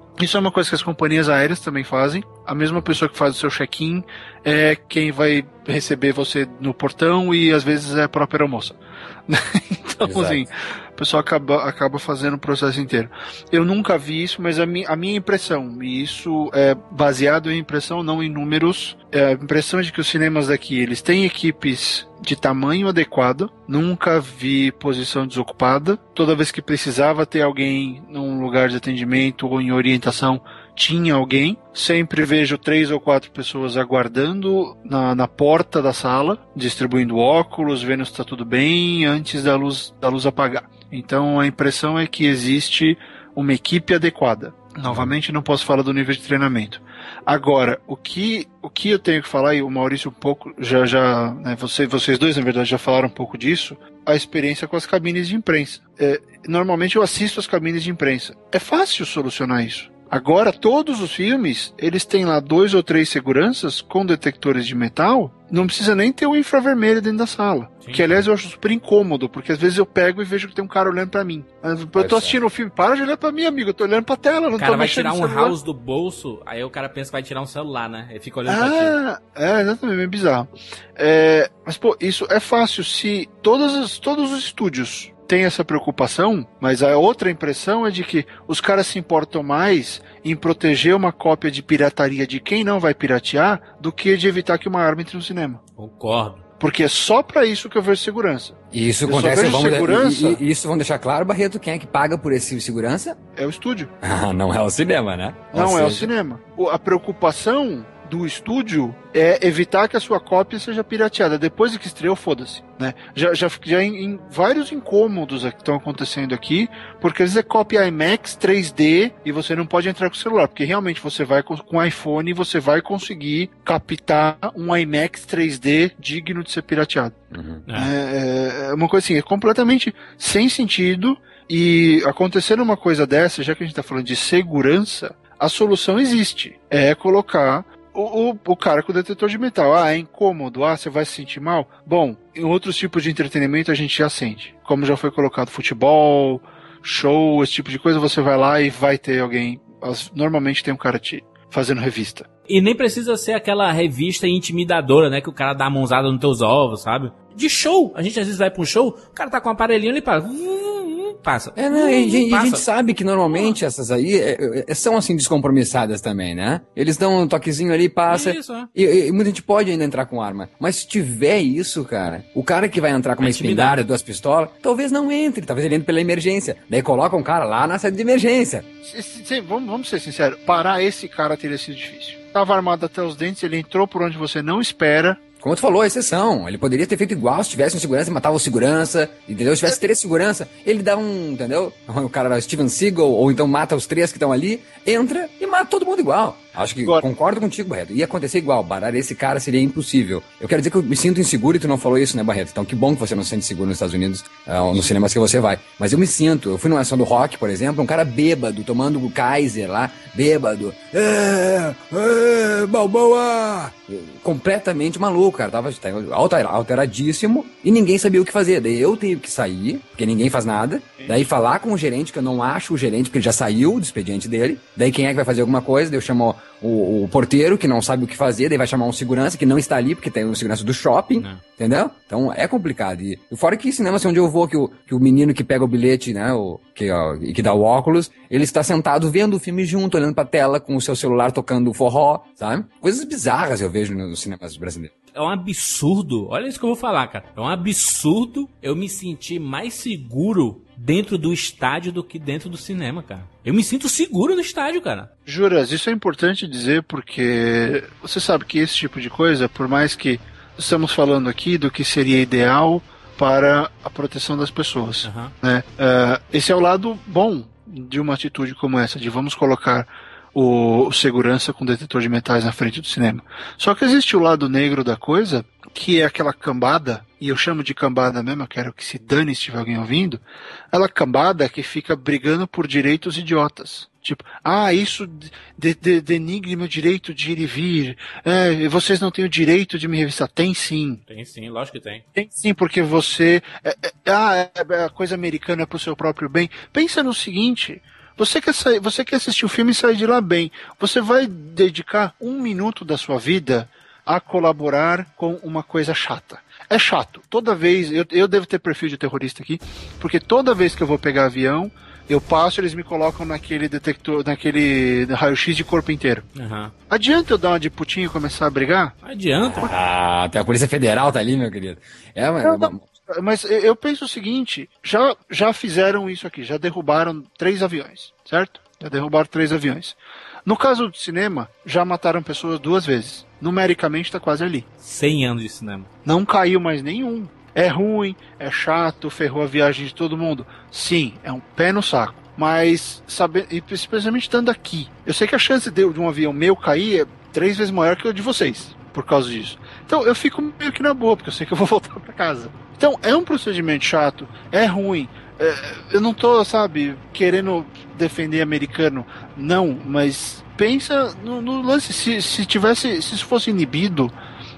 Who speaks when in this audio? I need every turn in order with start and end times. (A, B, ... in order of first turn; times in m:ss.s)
0:00.2-1:15.6 A
0:10.0-0:10.5 B
1:12.0-1:12.4 B
1:14.6-1:19.0 C
1:18.5-1:35.6 A
1:35.8-1:36.4 C
1:36.6-1:40.4 A
1:38.7-1:43.2 B
1:43.4-1:43.9 A
1:44.0-1:46.1 B
1:45.5-2:07.2 A
2:07.3-2:07.6 B
2:07.7-2:07.9 C
2:07.8-2:32.3 A
2:32.5-2:42.6 C
2:41.6-2:58.7 B
2:48.1-2:48.7 C
2:53.2-2:53.8 C
2:58.8-3:05.2 A
3:05.4-4:04.9 B
3:51.2-3:51.4 C
4:05.2-4:15.1 C
4:15.3-4:40.2 A
4:25.0-4:25.3 C
4:40.7-4:51.0 A
4:51.1-4:52.0 C
4:52.2-5:16.3 A
5:16.4-5:16.7 C
5:16.9-5:19.0 A
5:19.0-5:19.7 C
5:19.6-5:22.8 B
5:22.4-5:34.7 A
5:34.8-5:35.9 C
5:36.0-6:04.1 A